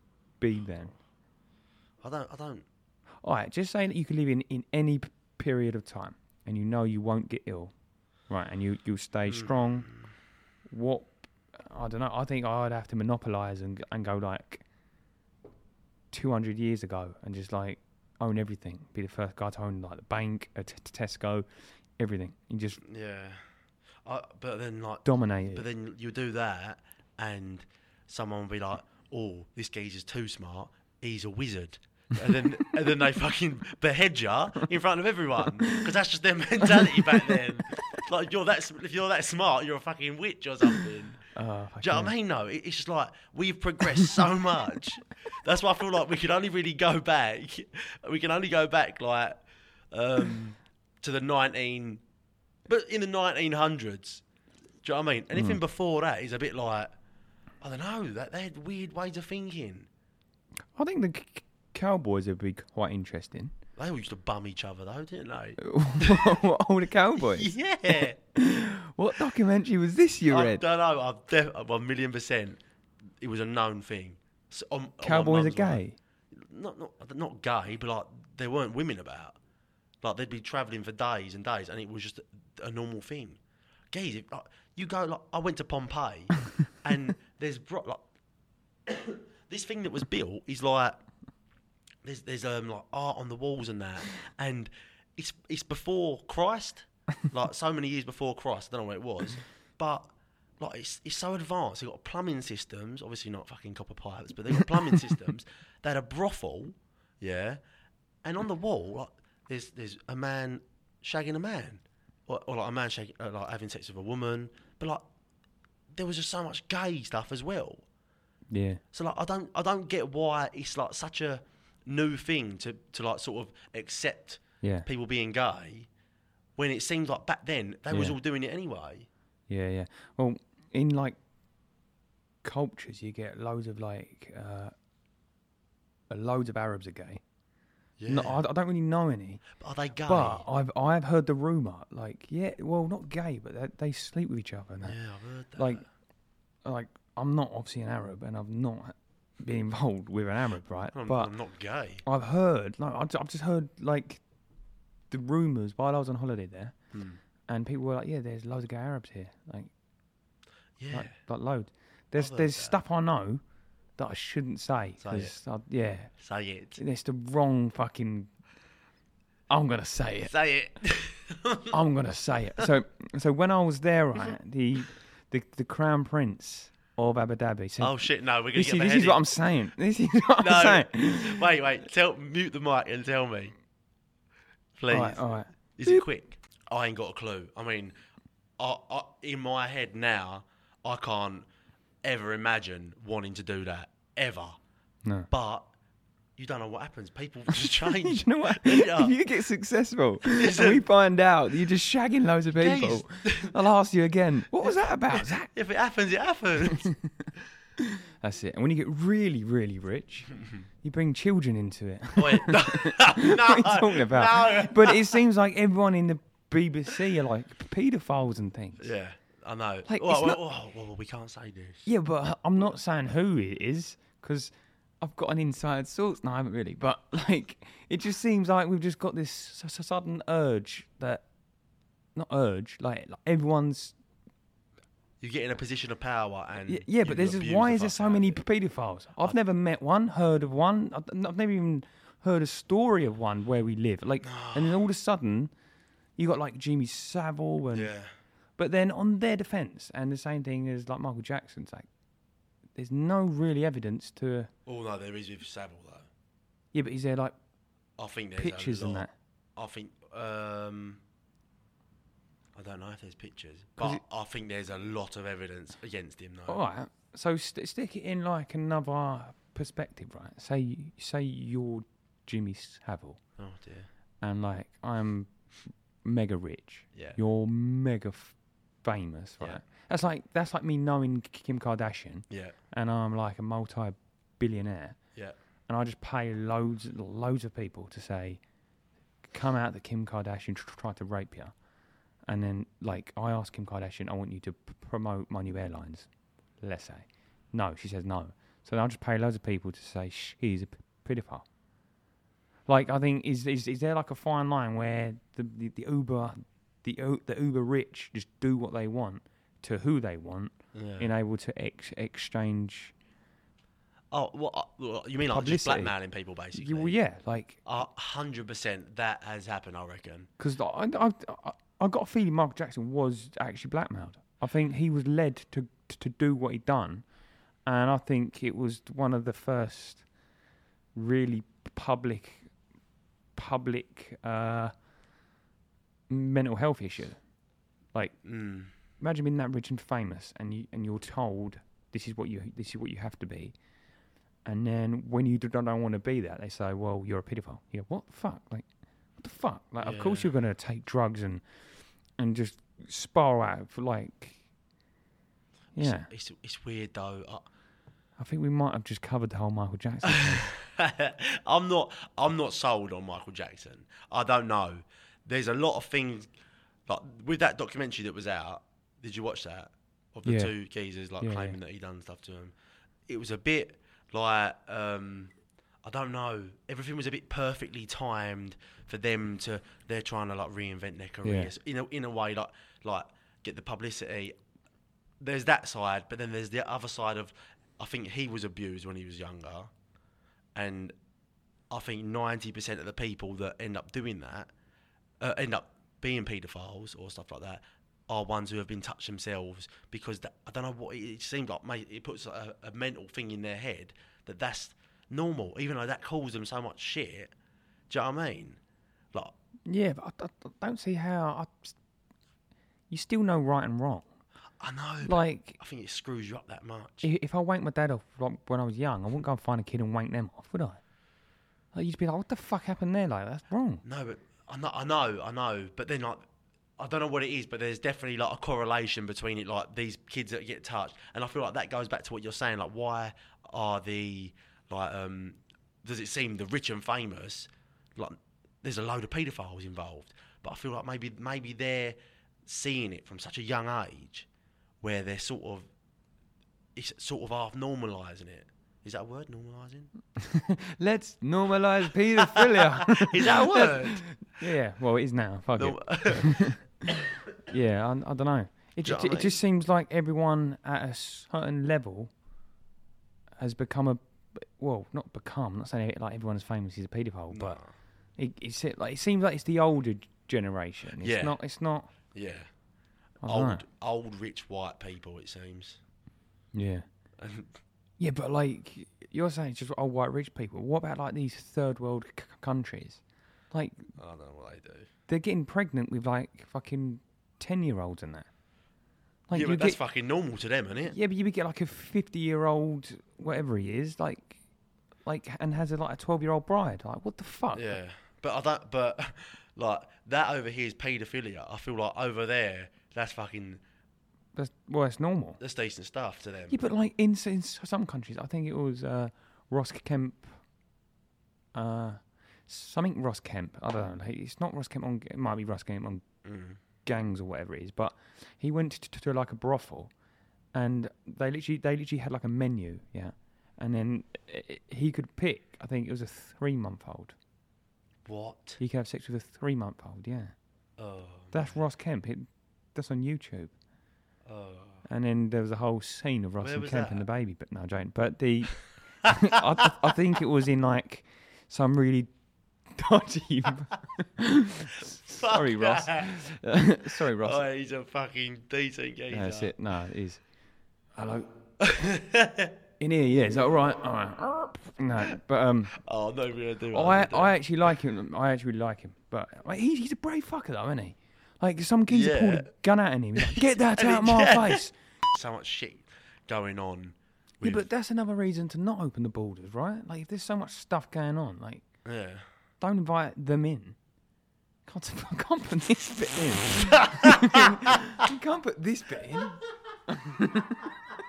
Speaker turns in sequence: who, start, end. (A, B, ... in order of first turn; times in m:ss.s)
0:00.4-0:00.9 A
0:02.0-0:02.6 B
0:03.2-0:07.7 A
0:08.3-0:09.9 A
0:09.3-0:10.1 B
0:10.7-0:14.6 A
0:16.1-0:21.4 A
0:22.0-0:22.8 A
0:22.8-0:23.4 B
0:24.0-0:41.3 B
0:25.0-0:25.6 A
0:36.8-0:37.4 A
0:41.3-0:42.1 A
0:41.8-0:52.0 B
0:52.6-0:54.2 B
0:54.8-0:56.9 B
0:55.3-0:55.6 A
0:57.6-0:59.9 B
1:00.7-1:03.5 A
1:03.8-1:06.4 B
1:05.6-1:10.6 A
1:07.2-1:08.2 B
1:10.3-1:12.6 B
1:13.2-1:19.4 B
1:15.0-1:16.0 A
1:20.0-1:23.4 B
1:23.9-1:28.0 B
1:28.8-1:31.0 B
1:32.0-1:47.6 B
1:48.2-1:55.0 B
1:55.9-1:57.8 B
1:58.5-1:58.8 A
1:58.9-2:05.9 B
2:04.6-2:04.9 A
2:06.6-2:09.1 B
2:07.9-2:08.2 A
2:09.5-2:11.2 A
2:12.4-2:14.7 A
2:16.1-2:17.2 A
2:18.0-2:18.4 B
2:18.1-2:19.4 A
2:19.5-2:20.4 B
2:20.0-2:25.0 A
2:24.8-2:25.8 B
2:25.6-2:25.8 A
2:26.6-2:31.3 A
2:30.9-2:32.0 B
2:32.0-2:34.2 A
2:35.1-2:36.8 A
2:36.9-2:37.2 B
2:37.5-2:39.7 A
2:40.8-2:41.2 B
2:40.9-2:43.4 A
2:42.2-2:42.8 B
2:44.0-2:46.1 A
2:45.0-2:45.3 B
2:46.2-2:46.8 B
2:46.8-2:48.3 A
2:49.5-2:50.3 A
2:50.2-2:51.7 B
2:51.7-2:58.0 A
2:57.8-2:59.2 B
2:58.5-3:01.4 A
3:00.4-3:03.5 B
3:04.8-3:05.2 B
3:04.9-3:06.0 A
3:05.8-3:08.0 B
3:08.6-3:11.5 B
3:12.0-3:14.6 B
3:15.3-3:15.7 B
3:16.4-3:19.2 B
3:17.5-3:25.5 A
3:20.3-3:20.8 B
3:22.6-3:23.6 B
3:25.1-3:26.9 B
3:26.7-3:27.3 A
3:27.8-3:38.9 A
3:32.2-3:35.2 B
3:38.8-3:41.9 B
3:39.9-3:40.4 A
3:41.8-3:51.2 A
3:52.2-3:54.0 A
3:55.2-3:58.4 B
3:56.7-4:05.5 A
4:04.2-4:04.8 B
4:06.2-4:07.9 A
4:07.7-4:08.1 B
4:08.6-4:11.9 A
4:12.7-4:14.5 A
4:14.6-4:16.1 B
4:16.7-4:17.3 A
4:18.0-4:21.0 B
4:18.4-4:19.1 A
4:22.5-4:26.6 B
4:26.5-4:33.2 A
4:33.4-4:33.9 B
4:34.2-4:35.3 A
4:36.0-4:45.0 A
4:42.3-4:42.6 B
4:45.7-4:48.4 A
4:49.3-4:51.5 A
4:52.2-4:56.1 A
4:56.6-5:01.4 A
5:02.6-5:12.9 A
5:10.7-5:11.1 B
5:14.1-5:17.0 B
5:15.3-5:15.9 A
5:16.5-5:17.6 A
5:17.6-5:20.3 B
5:20.4-5:27.1 A
5:27.6-5:30.0 A
5:30.9-5:32.5 A
5:33.4-5:34.7 A
5:36.1-5:37.2 A
5:38.2-5:38.7 B
5:39.0-5:43.5 A
5:44.4-5:48.7 A
5:49.2-5:51.4 A
5:49.8-5:50.3 B
5:52.2-5:54.4 A
5:55.7-5:56.1 A
5:55.8-5:57.5 B
5:58.2-6:00.5 A
6:00.1-6:06.3 B
6:06.9-6:12.5 B
6:10.2-6:10.5 A
6:11.2-6:11.6 A
6:13.0-6:24.4 B
6:21.2-6:21.5 A
6:25.2-6:29.7 B
6:30.5-6:30.9 B
6:31.7-6:34.5 B
6:35.2-6:47.3 B
6:47.9-6:48.6 B
6:49.6-6:51.8 A
6:52.9-6:54.1 A
6:54.6-6:57.1 B
6:55.0-6:55.6 A
6:57.0-7:00.8 A
7:01.7-7:03.8 A
7:03.8-7:06.3 B
7:06.8-7:24.3 B
7:24.8-7:25.7 B
7:26.7-7:29.9 B
7:30.2-7:36.6 A
7:32.2-7:34.2 B
7:35.6-7:37.0 B
7:37.4-7:42.1 A
7:38.8-7:39.4 B
7:43.4-7:47.6 A
7:47.3-7:47.7 B
7:48.2-7:51.9 A
7:51.0-7:51.4 B
7:52.1-7:52.5 B
7:53.2-7:53.6 A
7:53.2-7:55.8 B
7:56.5-7:56.8 A
7:57.2-7:57.5 B
7:58.0-8:03.9 A
8:04.0-8:04.9 B
8:05.1-8:08.3 A
8:09.3-8:09.8 A
8:09.3-8:10.9 B
8:10.9-8:14.4 A
8:15.0-8:17.8 A
8:17.5-8:23.6 B
8:24.3-8:25.4 A
8:25.4-8:26.6 B
8:26.5-8:30.3 A
8:31.5-8:36.0 A
8:36.2-8:36.6 B
8:36.8-8:39.9 A
8:40.5-8:47.1 A
8:48.0-8:48.6 B
8:48.6-8:50.3 A
8:50.8-8:51.6 B
8:51.3-8:53.5 A
8:54.2-8:54.8 B
8:54.8-9:02.1 A
8:56.4-8:57.0 B
9:02.7-9:07.4 A
9:05.0-9:06.1 B
9:07.2-9:09.5 B
9:09.1-9:10.3 A
9:10.9-9:11.3 A
9:11.6-9:12.5 B
9:12.8-9:15.8 A
9:15.8-9:17.3 B
9:16.7-9:24.7 A
9:21.9-9:22.5 B
9:23.2-9:27.6 B
9:27.4-9:31.6 A
9:31.8-9:32.2 B
9:32.6-9:33.8 A
9:34.6-9:40.7 A
9:37.0-9:37.8 B
9:39.1-9:39.4 B
9:40.4-9:40.7 B